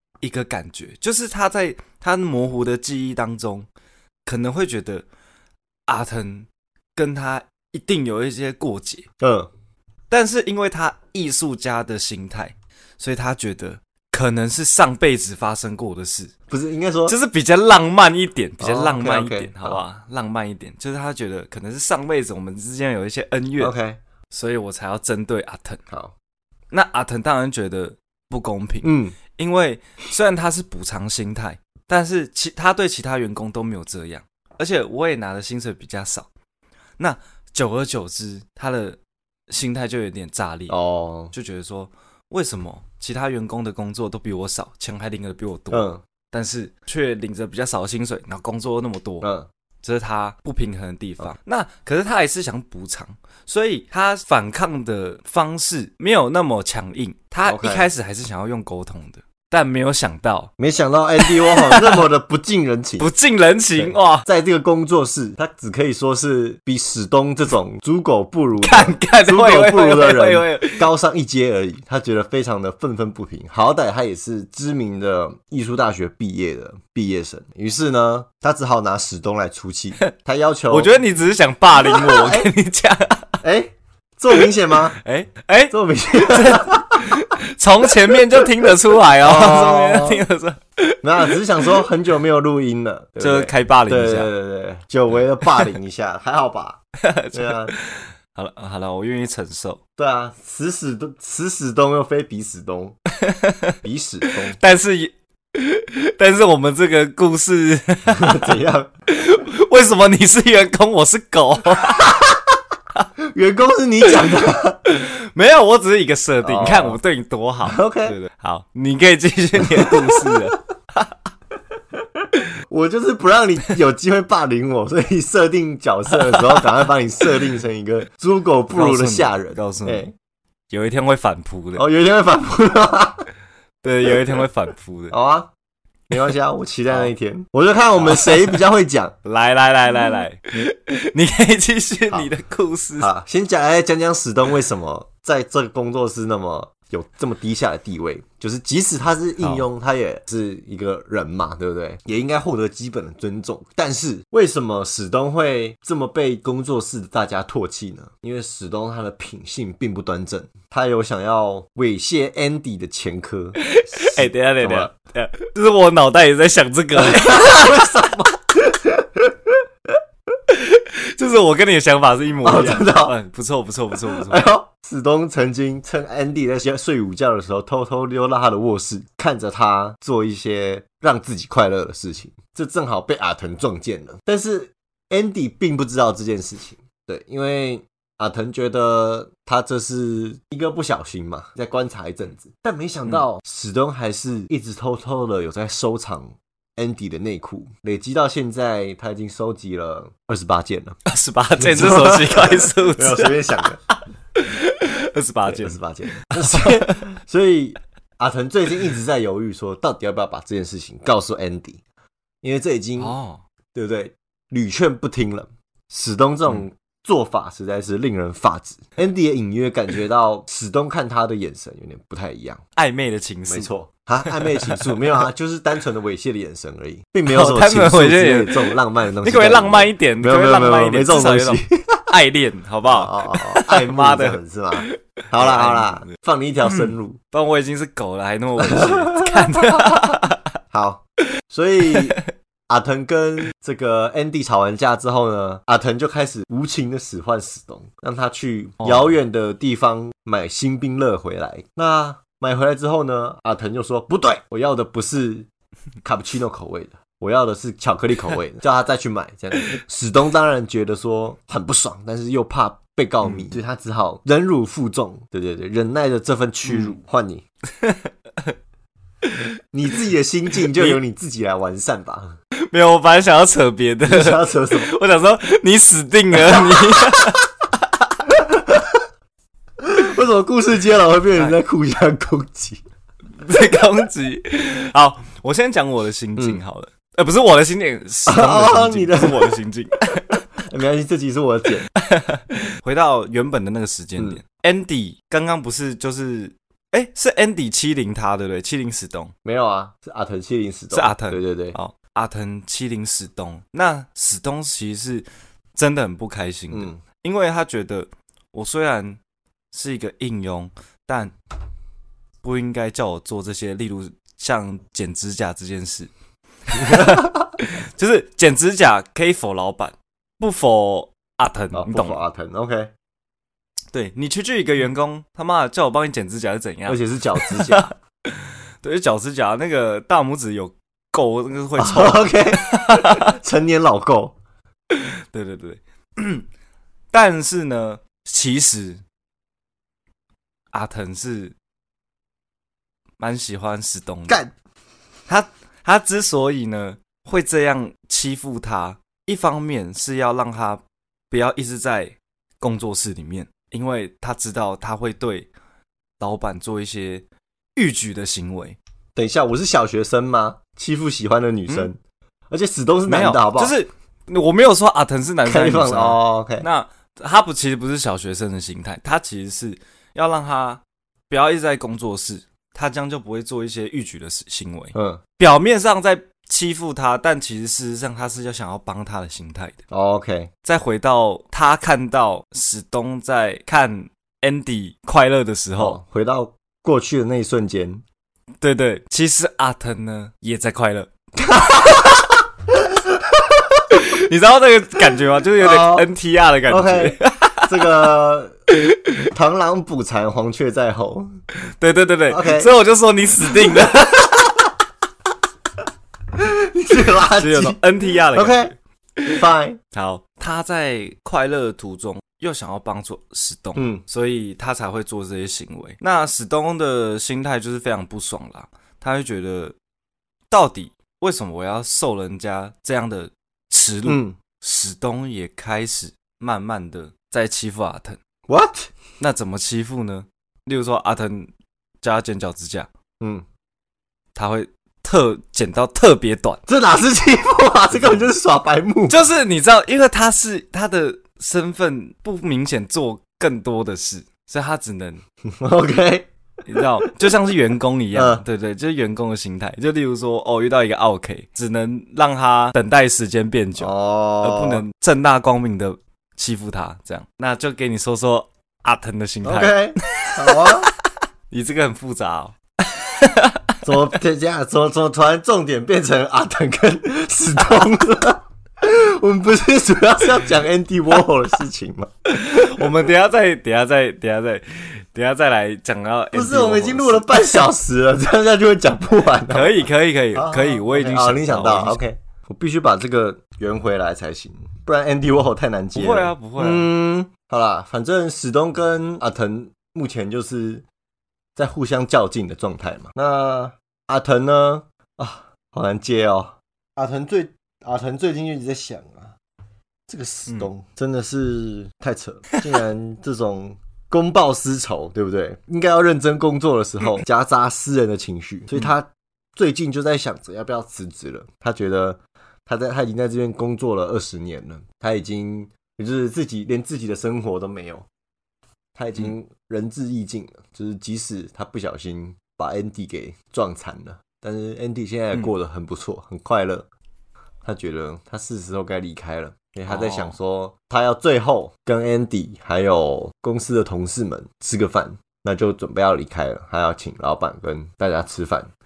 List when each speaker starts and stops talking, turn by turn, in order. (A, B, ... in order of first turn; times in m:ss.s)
0:00.2-0:03.7 A
0:04.2-0:05.0 A
0:05.9-0:09.0 A
0:09.2-0:09.5 B
0:10.1-0:16.3 A
0:16.5-0:17.1 B
0:17.1-0:23.7 A
0:18.6-0:19.8 B
0:23.6-0:24.0 B
0:24.3-0:25.8 A
0:25.9-0:26.1 B
0:26.7-0:36.3 A
0:28.8-0:29.2 B
0:37.0-0:39.0 A
0:39.5-0:40.8 A
0:40.7-0:41.3 B
0:41.3-0:49.3 A
0:45.7-0:46.0 B
0:49.2-0:49.5 B
0:49.8-1:00.5 A
0:57.4-0:57.9 B
1:00.6-1:03.1 B
1:01.2-1:02.0 A
1:03.0-1:04.3 A
1:03.8-1:20.9 B
1:08.6-1:10.8 A
1:20.7-1:23.4 A
1:21.7-1:22.5 B
1:23.4-1:25.0 B
1:25.0-1:31.0 A
1:25.7-1:27.2 B
1:29.2-1:30.2 B
1:31.0-1:37.7 B
1:33.2-1:34.3 A
1:37.0-1:39.8 A
1:40.0-1:43.0 B
1:43.2-1:43.8 A
1:43.8-1:44.6 B
1:44.5-1:48.5 A
1:48.1-1:48.9 B
1:49.1-1:52.2 A
1:52.0-1:52.4 B
1:53.2-1:54.8 B
1:54.8-2:01.0 A
1:56.4-1:57.0 B
1:57.6-1:58.2 B
1:59.6-2:00.5 B
2:02.2-2:10.1 B
2:06.3-2:06.7 A
2:08.7-2:10.1 A
2:10.7-2:11.8 A
2:11.8-2:13.2 B
2:13.8-2:15.1 A
2:15.1-2:15.5 B
2:16.1-2:19.1 B
2:18.0-2:18.6 A
2:19.2-2:23.1 A
2:23.0-2:44.9 B
2:43.6-2:47.9 A
2:47.0-2:49.6 B
2:50.5-2:54.4 A
2:52.4-2:53.1 B
2:54.1-3:21.0 B
3:21.0-3:23.3 A
3:21.6-3:23.8 B
3:23.9-3:27.1 A
3:25.5-3:31.8 B
3:32.4-3:33.1 B
3:33.0-3:33.4 A
3:33.7-3:42.6 B
3:42.8-3:43.7 A
3:43.5-3:52.0 B
3:44.2-3:45.0 A
3:47.3-3:56.1 A
3:52.9-3:57.2 B
3:56.7-4:00.4 A
3:58.6-4:00.1 B
4:00.7-4:15.5 B
4:01.9-4:02.2 A
4:08.8-4:09.1 A
4:16.0-4:27.4 B
4:23.2-4:23.5 A
4:26.6-4:26.9 A
4:27.8-4:28.5 A
4:29.7-4:32.4 B
4:30.7-4:31.0 A
4:32.7-4:37.4 A
4:34.0-4:34.9 B
4:36.5-4:37.2 B
4:38.3-4:39.0 B
4:39.8-4:42.8 B
4:43.4-4:50.4 A
4:48.2-4:49.6 B
4:50.6-4:51.9 B
4:52.0-4:59.3 A
4:59.4-5:01.8 B
5:00.9-5:09.2 A
5:06.7-5:07.0 B
5:09.7-5:11.3 A
5:12.4-5:16.1 A
5:16.7-5:22.2 A
5:16.8-5:17.3 B
5:21.7-5:22.9 B
5:23.9-5:33.3 A
5:26.9-5:27.9 B
5:31.8-5:34.4 B
5:34.9-5:36.4 A
5:37.1-5:39.0 A
5:40.7-5:41.5 A
5:43.2-5:44.4 A
5:45.3-5:55.5 A
5:56.2-5:58.8 A
5:59.1-6:02.0 B
6:02.5-6:03.7 B
6:03.1-6:19.8 A
6:05.4-6:06.6 B
6:14.9-6:15.2 B
6:19.9-6:20.5 B
6:20.6-6:26.0 A
6:25.8-6:28.0 B
6:28.6-6:31.1 A
6:31.4-6:32.3 B
6:32.8-6:33.8 B
6:33.9-6:37.7 A
6:35.6-6:36.1 B
6:36.7-6:38.5 B
6:38.8-6:39.2 A
6:39.3-6:41.3 B
6:41.8-6:44.4 A
6:42.3-6:42.7 B
6:43.5-6:44.5 B
6:46.3-6:47.8 B
6:47.4-6:49.4 A
6:48.3-6:48.7 B
6:49.3-6:49.8 B
6:49.9-6:59.8 A
6:53.8-6:54.0 B
7:00.5-7:08.2 A
7:04.0-7:04.4 B
7:08.5-7:08.9 B
7:09.2-7:11.5 A
7:12.0-7:12.9 A
7:13.2-7:13.4 B
7:14.3-7:16.6 A
7:16.7-7:19.2 B
7:19.1-7:25.2 A
7:25.5-7:26.3 B
7:26.6-7:33.9 A
7:28.1-7:28.4 B
7:33.8-7:34.8 B
7:34.4-7:40.9 A
7:39.4-7:40.9 B
7:41.5-7:43.7 A
7:43.8-7:52.1 B
7:52.3-7:57.6 A
7:52.6-7:52.9 B
7:56.3-8:10.8 B
7:59.5-8:02.0 A
8:05.9-8:06.9 A
8:11.6-8:19.3 B
8:20.1-8:38.0 B
8:39.0-8:46.9 B
8:47.6-8:58.7 B
8:49.9-8:50.4 A